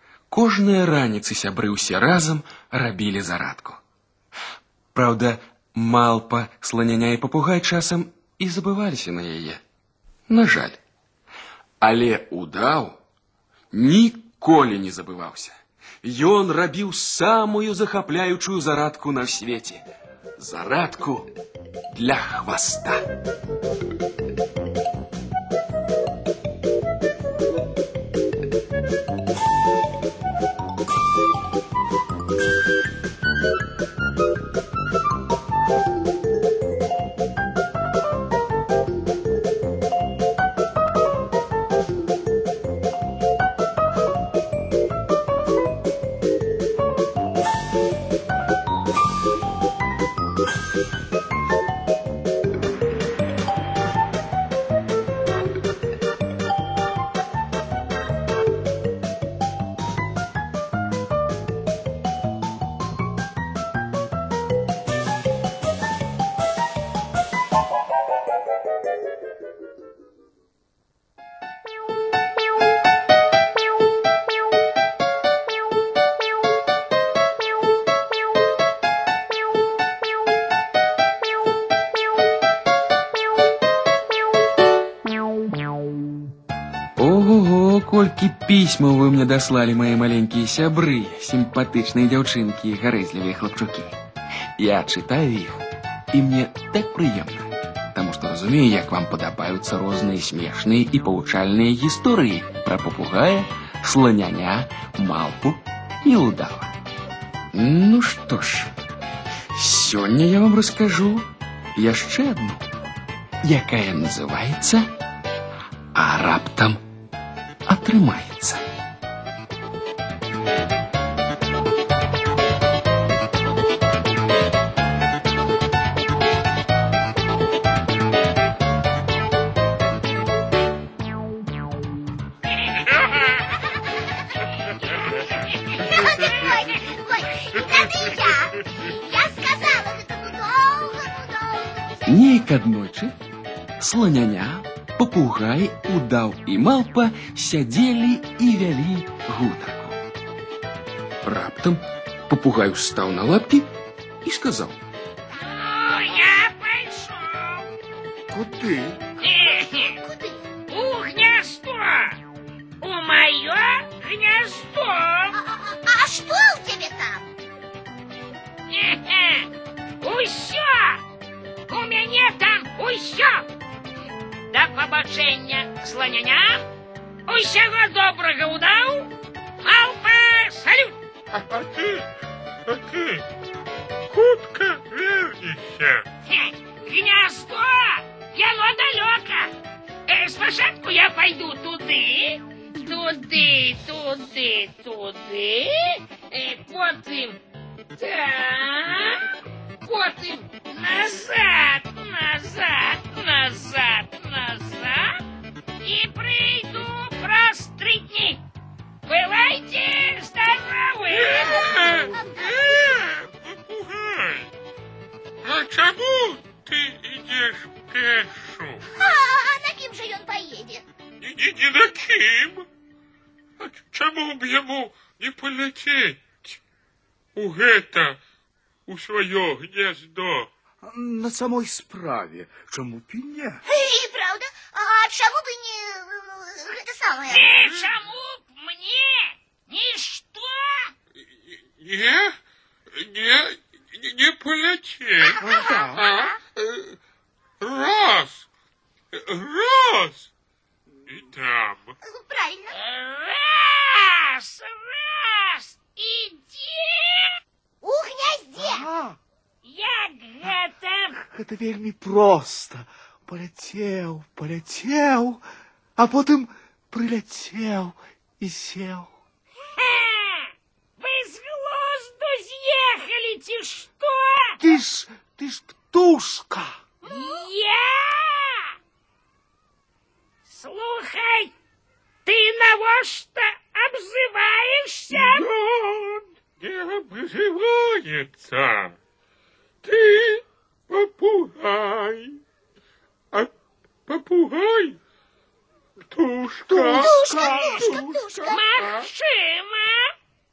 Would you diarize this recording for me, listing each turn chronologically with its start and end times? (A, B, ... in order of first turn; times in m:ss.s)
0:00.3-0:03.8 A
0:04.9-0:09.6 A
0:10.3-0:10.8 A
0:11.8-0:13.0 A
0:13.7-0:19.8 A
0:20.4-0:21.3 A
0:21.9-0:23.0 A
1:27.0-1:34.0 A
1:34.6-1:46.7 A
1:47.5-1:48.7 A
1:49.5-1:52.6 A
1:53.4-1:54.9 A
1:55.9-1:56.8 A
1:57.6-1:58.6 A
2:12.8-2:13.5 B
2:15.7-2:16.5 B
2:15.7-2:22.2 C
2:17.8-2:18.1 B
2:22.1-2:23.1 A
2:23.8-2:30.0 A
2:31.2-2:33.7 A
2:34.2-2:34.8 A
2:35.4-2:37.7 D
2:38.3-2:39.0 E
2:39.2-2:40.0 D
2:39.2-2:40.5 C
2:40.7-2:42.2 D
2:42.8-2:45.4 D
2:45.3-2:47.3 C
2:48.7-2:49.5 D
2:50.0-2:51.0 D
2:51.7-2:53.5 D
2:54.5-2:56.6 D
2:57.3-2:59.1 D
2:59.6-3:01.0 D
3:01.3-3:02.1 B
3:02.6-3:03.2 B
3:04.1-3:06.0 B
3:06.2-3:09.5 D
3:10.1-3:17.4 D
3:18.0-3:19.3 D
3:19.8-3:25.2 D
3:25.8-3:28.4 D
3:29.0-3:31.6 D
3:31.1-3:34.5 B
3:31.4-3:33.0 C
3:35.4-3:38.8 B
3:39.0-3:40.8 C
3:41.2-3:42.7 B
3:43.6-3:46.6 B
3:47.3-3:48.2 B
3:48.9-3:50.5 B
3:50.8-3:53.6 E
3:53.6-3:57.5 C
3:57.3-4:00.9 D
3:57.6-3:57.9 B
4:01.5-4:02.4 B
4:02.9-4:07.0 B
4:05.2-4:06.3 C
4:05.4-4:06.1 E
4:07.6-4:08.4 B
4:09.1-4:10.3 B
4:11.1-4:11.9 B
4:12.0-4:12.7 C
4:12.7-4:17.4 D
4:17.8-4:18.9 C
4:18.6-4:19.2 E
4:19.6-4:21.2 D
4:21.2-4:25.4 E
4:26.0-4:29.1 E
4:29.8-4:34.6 D
4:34.6-4:36.8 E
4:37.0-4:37.4 C
4:37.1-4:38.7 D
4:40.5-4:41.5 D
4:42.2-4:45.4 D
4:45.1-4:49.0 B
4:49.8-4:52.4 B
4:54.1-4:55.0 B
4:56.0-4:59.1 B
4:56.7-4:57.9 E
4:56.7-4:58.6 C
4:58.5-5:00.1 D